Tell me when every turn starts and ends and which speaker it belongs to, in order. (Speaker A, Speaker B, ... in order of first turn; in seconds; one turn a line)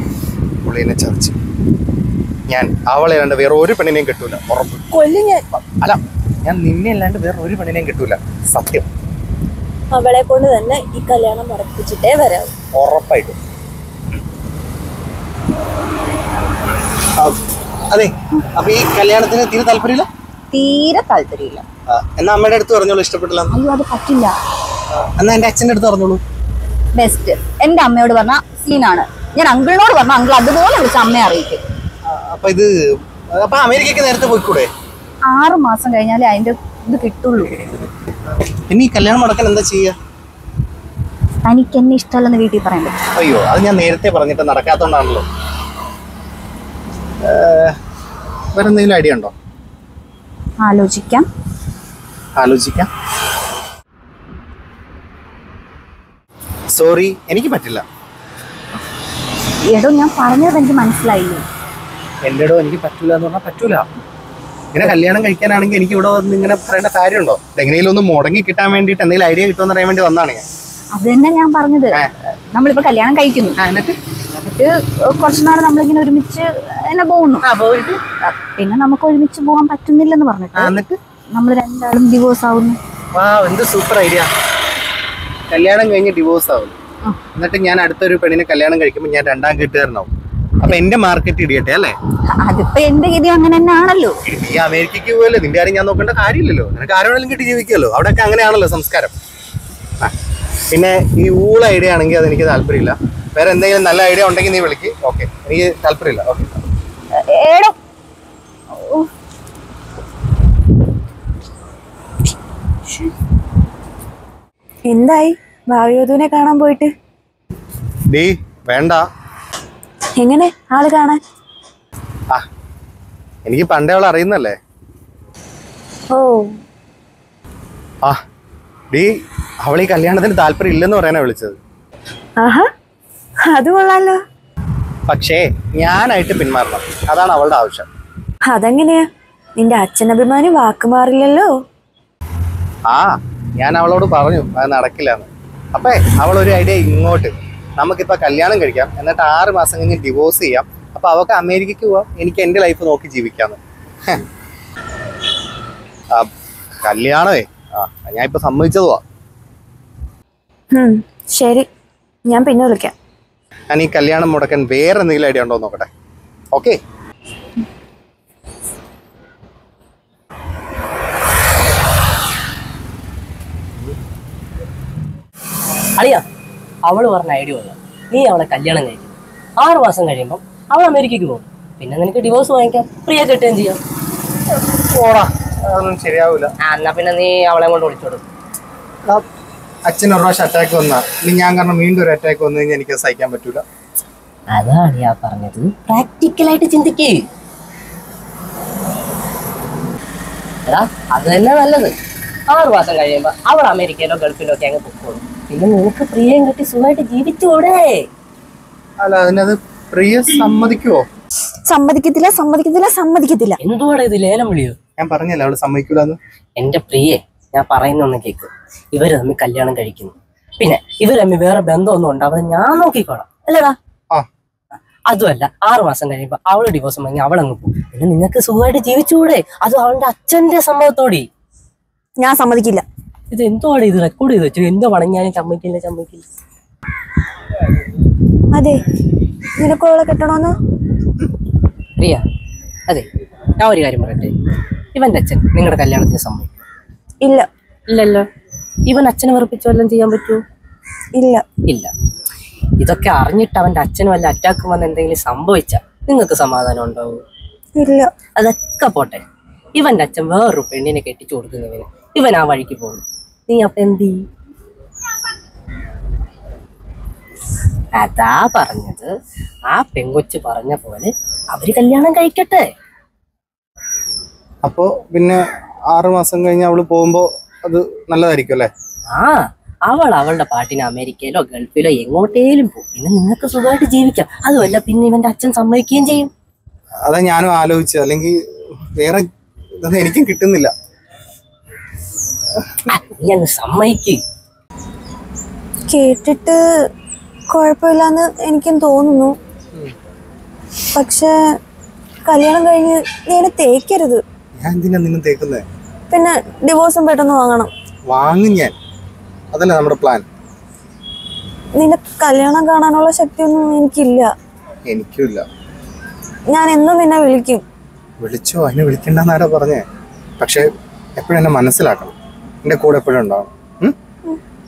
Speaker A: 0.6-1.4
Speaker A: 2.5-4.9
Speaker B: 4.9-5.4
Speaker A: 5.5-8.9
Speaker B: 9.9-12.5
Speaker A: 12.8-13.4
Speaker A: 17.2-20.1
Speaker C: 20.5-21.6
Speaker A: 21.9-23.5
Speaker C: 23.5-24.4
Speaker A: 24.9-26.2
Speaker C: 27.0-31.6
Speaker A: 32.1-34.7
Speaker C: 35.3-37.5
Speaker A: 38.7-40.0
Speaker C: 41.5-43.0
Speaker A: 43.1-45.3
Speaker A: 47.2-47.8
Speaker A: 48.5-49.3
Speaker C: 50.6-51.3
Speaker A: 52.4-52.9
Speaker A: 56.7-57.8
Speaker C: 59.7-61.5
Speaker A: 62.2-63.9
Speaker A: 64.7-70.5
Speaker C: 71.0-72.0
Speaker C: 72.5-73.6
Speaker A: 73.6-74.0
Speaker C: 74.5-77.4
Speaker A: 77.5-78.0
Speaker C: 78.2-80.8
Speaker A: 80.6-81.0
Speaker C: 81.3-82.8
Speaker A: 83.1-84.3
Speaker A: 85.5-86.8
Speaker A: 87.4-90.1
Speaker A: 90.6-92.0
Speaker C: 92.4-94.2
Speaker A: 94.2-99.1
Speaker A: 100.7-106.6
Speaker B: 107.4-107.7
Speaker B: 114.9-116.9
Speaker A: 118.1-119.0
Speaker B: 120.2-121.2
Speaker A: 123.5-124.6
Speaker B: 126.1-126.5
Speaker A: 129.6-131.6
Speaker B: 132.4-132.7
Speaker B: 133.4-134.2
Speaker A: 135.1-137.9
Speaker B: 138.5-139.1
Speaker B: 139.6-141.5
Speaker A: 142.9-154.2
Speaker A: 156.8-159.0
Speaker B: 160.7-161.7
Speaker B: 162.3-162.9
Speaker A: 163.7-165.9
Speaker A: 166.5-166.8
Speaker D: 176.0-176.2
Speaker D: 176.8-183.8
Speaker A: 184.7-186.5
Speaker D: 186.6-188.2
Speaker A: 189.9-193.6
Speaker D: 194.5-197.2
Speaker D: 200.7-201.9
Speaker D: 202.5-208.1
Speaker A: 209.0-211.0
Speaker B: 211.7-213.6
Speaker D: 213.6-214.8
Speaker A: 215.0-216.2
Speaker D: 216.6-223.4
Speaker D: 225.1-231.3
Speaker B: 232.2-232.8
Speaker D: 233.3-236.3
Speaker B: 238.5-238.8
Speaker B: 239.6-240.5
Speaker D: 243.6-244.3
Speaker D: 244.9-246.5
Speaker B: 247.2-247.5
Speaker D: 247.9-248.3
Speaker D: 248.9-250.4
Speaker B: 251.2-251.4
Speaker D: 251.7-251.9
Speaker D: 252.8-257.2
Speaker B: 257.8-258.1
Speaker D: 258.4-259.2
Speaker D: 259.8-264.3
Speaker D: 267.9-269.1
Speaker D: 269.7-272.7
Speaker A: 274.6-278.7
Speaker D: 279.1-286.3
Speaker A: 287.1-288.4
Speaker A: 289.0-289.3
Speaker A: 289.8-290.7
Speaker D: 292.9-294.2
Speaker B: 295.9-296.6
Speaker B: 297.5-299.4
Speaker B: 300.9-301.3
Speaker B: 302.3-304.2
Speaker A: 304.6-305.6
Speaker B: 306.1-307.7
Speaker A: 308.1-308.7
Speaker A: 309.5-310.3
Speaker B: 311.8-314.3
Speaker A: 314.9-315.5
Speaker B: 316.5-317.6
Speaker A: 318.2-319.8
Speaker A: 320.4-320.7
Speaker A: 321.2-323.9